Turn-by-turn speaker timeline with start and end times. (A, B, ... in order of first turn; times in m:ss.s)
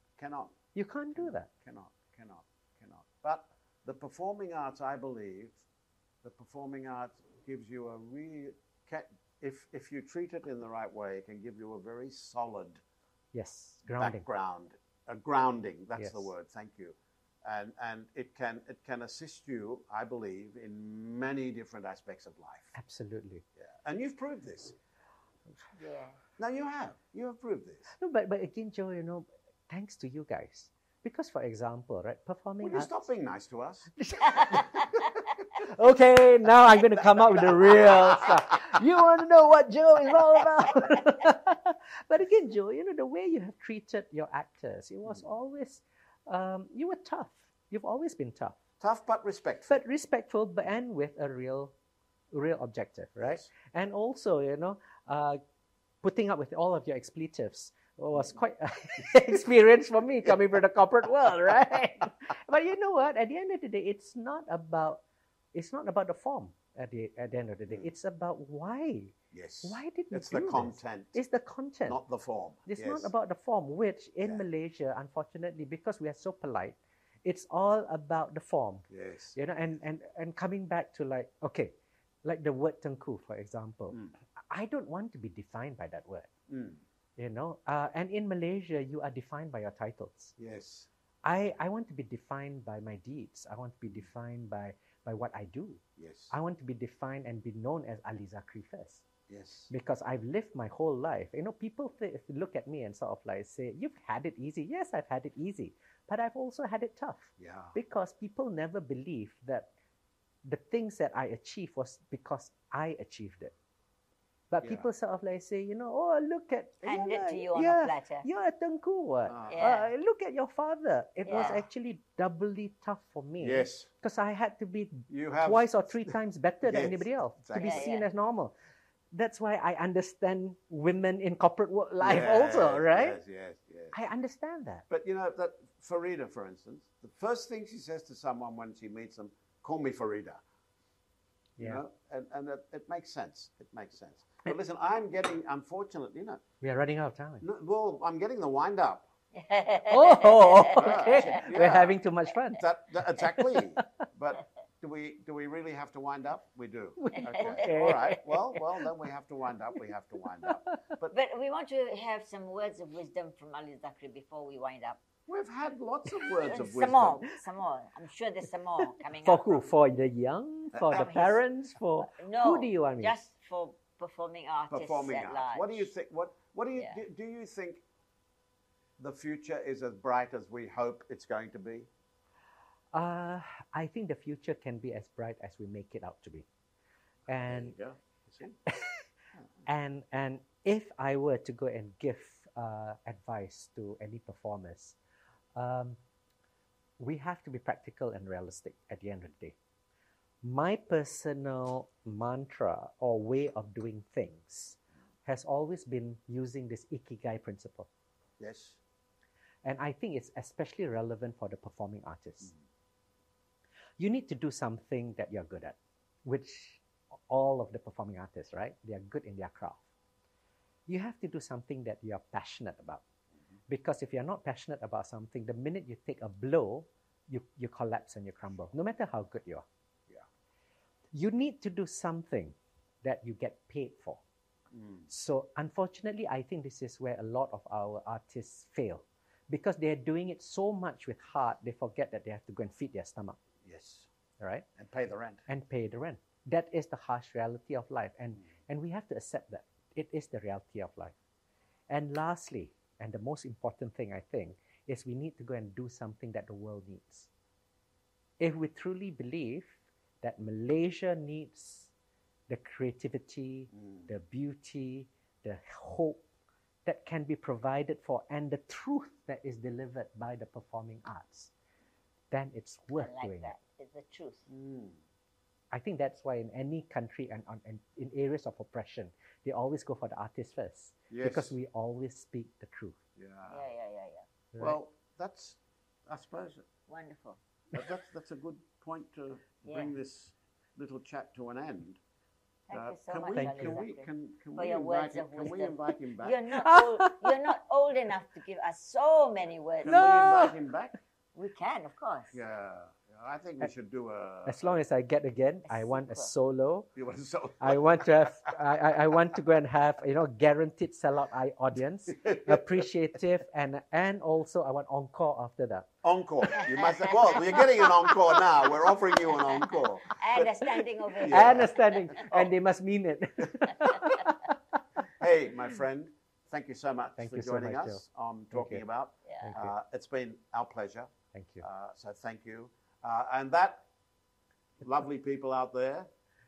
0:00.2-0:00.6 A
0:00.8-0:01.5 B
0:01.2-0:05.6 A
0:06.2-0:12.8 A
0:13.3-0:14.3 B
0:13.9-0:22.8 A
0:16.0-0:16.3 B
0:22.8-0:23.4 B
0:23.6-0:24.8 A
0:25.8-0:26.2 C
0:26.4-0:27.9 A
0:28.0-0:33.0 B
0:32.6-0:35.6 A
0:34.0-0:35.0 B
0:34.3-0:34.9 C
0:35.6-0:48.6 B
0:36.7-0:38.8 A
0:48.8-0:49.8 A
0:49.7-0:51.7 B
0:52.3-0:55.4 B
0:53.2-0:53.5 A
0:56.0-1:05.0 B
1:05.5-1:12.0 B
1:09.3-1:11.2 A
1:11.9-1:13.1 A
1:12.7-1:21.7 B
1:18.9-1:19.4 A
1:22.2-1:26.3 B
1:26.5-1:26.8 A
1:27.2-1:30.4 B
1:30.4-1:30.9 A
1:31.2-1:39.0 B
1:36.0-1:36.3 A
1:39.3-1:39.7 A
1:39.7-1:49.7 B
1:47.4-1:47.8 A
1:50.4-1:53.5 B
1:54.5-2:08.5 B
1:54.6-1:54.9 A
1:56.8-1:58.3 C
1:59.3-1:59.8 A
1:59.5-1:59.9 C
2:01.3-2:01.6 C
2:01.3-2:01.6 A
2:03.4-2:03.9 A
2:05.1-2:07.9 A
2:07.6-2:08.1 C
2:09.1-2:13.2 B
2:12.0-2:14.0 A
2:13.9-2:14.8 B
2:14.9-2:20.4 A
2:21.6-2:26.4 A
2:26.6-2:27.4 B
2:27.4-2:29.1 A
2:29.3-2:31.4 C
2:29.9-2:32.6 B
2:30.8-2:32.0 A
2:32.5-2:41.2 A
2:33.2-2:33.8 B
2:37.0-2:38.2 B
2:37.2-2:38.2 C
2:40.4-2:40.8 B
2:41.1-2:45.0 C
2:45.3-2:47.3 A
2:46.3-2:49.6 C
2:48.9-2:53.2 B
2:50.7-2:51.2 A
2:50.9-2:51.4 C
2:52.1-2:55.9 C
2:54.7-2:57.8 A
2:59.0-3:01.9 A
3:02.9-3:06.5 B
3:07.3-3:07.7 B
3:07.4-3:08.6 A
3:08.7-3:09.0 B
3:09.7-3:15.0 B
3:15.6-3:16.0 B
3:17.0-3:19.6 B
3:20.4-3:27.9 B
3:28.4-3:28.8 A
3:29.6-3:32.5 B
3:34.0-3:39.8 B
3:40.9-3:43.0 B
3:43.7-3:49.6 B
3:51.1-3:54.2 B
3:54.7-3:55.1 A
3:55.1-4:03.4 B
4:03.6-4:04.1 A
4:04.4-4:04.7 B
4:04.8-4:05.5 A
4:05.5-4:11.2 B
4:11.9-4:17.3 B
4:18.4-4:21.9 B
4:22.5-4:26.2 B
4:23.7-4:24.1 A
4:26.9-4:31.5 B
4:32.3-4:33.6 B
4:33.0-4:34.4 C
4:34.5-4:35.0 A
4:35.7-4:43.0 B
4:41.1-4:41.6 A
4:43.2-4:43.6 A
4:43.5-4:44.3 C
4:44.6-4:46.7 A
4:46.9-4:47.4 C
4:47.7-4:52.0 A
4:49.7-4:49.9 C
4:52.7-5:00.2 C
4:52.7-4:56.4 A
4:53.4-4:53.8 B
4:56.6-4:57.4 B
4:59.8-5:01.0 A
4:59.9-5:00.6 B
5:01.4-5:02.4 C
5:02.3-5:04.8 A
5:04.5-5:06.9 B
5:05.7-5:06.3 C
5:07.0-5:08.5 A
5:07.6-5:15.9 B
5:12.1-5:12.9 A
5:16.0-5:22.5 A
5:16.6-5:22.1 C
5:21.3-5:24.6 B
5:25.2-5:31.1 A
5:27.2-5:28.8 B
5:29.3-5:29.5 C
5:29.4-5:29.8 B
5:31.3-5:31.6 B
5:31.6-5:33.9 A
5:34.8-5:36.1 A